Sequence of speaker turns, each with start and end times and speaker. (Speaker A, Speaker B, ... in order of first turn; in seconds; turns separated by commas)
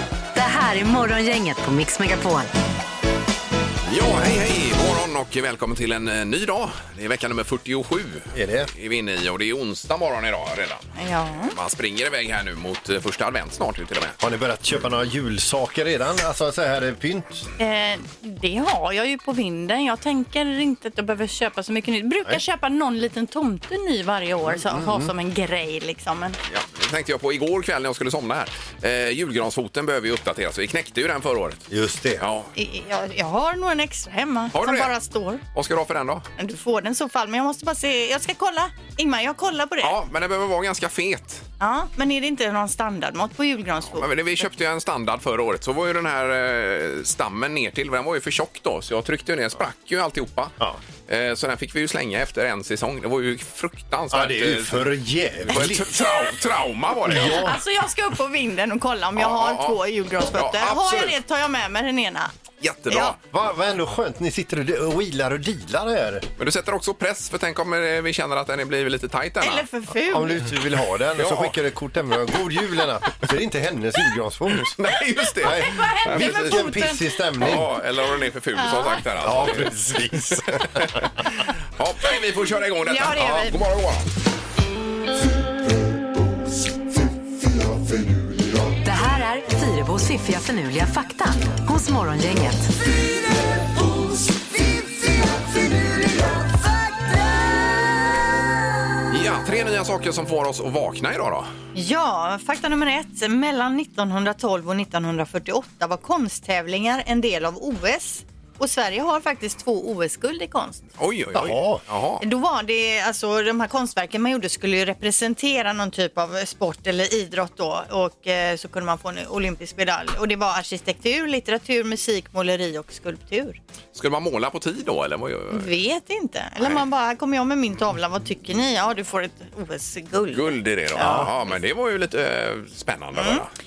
Speaker A: 0.3-2.5, Speaker B: 3.9-10.8, Speaker C: 8.3-8.7, Speaker D: 11.0-11.5, Speaker B: 11.5-14.2, Speaker C: 14.2-17.5, Speaker D: 17.6-26.4, Speaker C: 24.5-25.1, Speaker B: 26.5-31.6, Speaker C: 31.7-32.2, Speaker B: 32.2-32.5, Speaker D: 32.5-35.4, Speaker B: 34.5-34.9, Speaker B: 35.5-36.2, Speaker D: 36.4-39.9, Speaker B: 39.8-41.4, Speaker D: 41.6-44.1, Speaker B: 43.9-50.5, Speaker B: 51.1-54.9, Speaker C: 54.1-55.8, Speaker B: 55.5-57.5, Speaker D: 55.6-56.3, Speaker C: 57.1-57.6, Speaker D: 57.1-62.3, Speaker B: 59.2-59.8, Speaker B: 60.3-61.1, Speaker B: 62.6-63.2, Speaker D: 62.9-63.1, Speaker C: 63.3-66.3, Speaker B: 66.4-69.7, Speaker D: 69.4-70.5, Speaker C: 70.1-74.8, Speaker B: 71.2-71.5, Speaker B: 74.7-76.7, Speaker C: 75.4-77.7, Speaker D: 75.5-77.0, Speaker B: 77.4-84.1, Speaker D: 78.5-79.0, Speaker C: 79.2-80.8, Speaker D: 82.8-83.6, Speaker A: 88.8-92.7, Speaker B: 99.1-101.5, Speaker D: 101.7-110.8, Speaker B: 111.0-112.2, Speaker C: 111.3-111.8, Speaker D: 112.2-123.6, Speaker B: 123.9-125.7, Speaker D: 125.5-131.3, Speaker B: 130.3-133.5, Speaker D: 133.1-133.4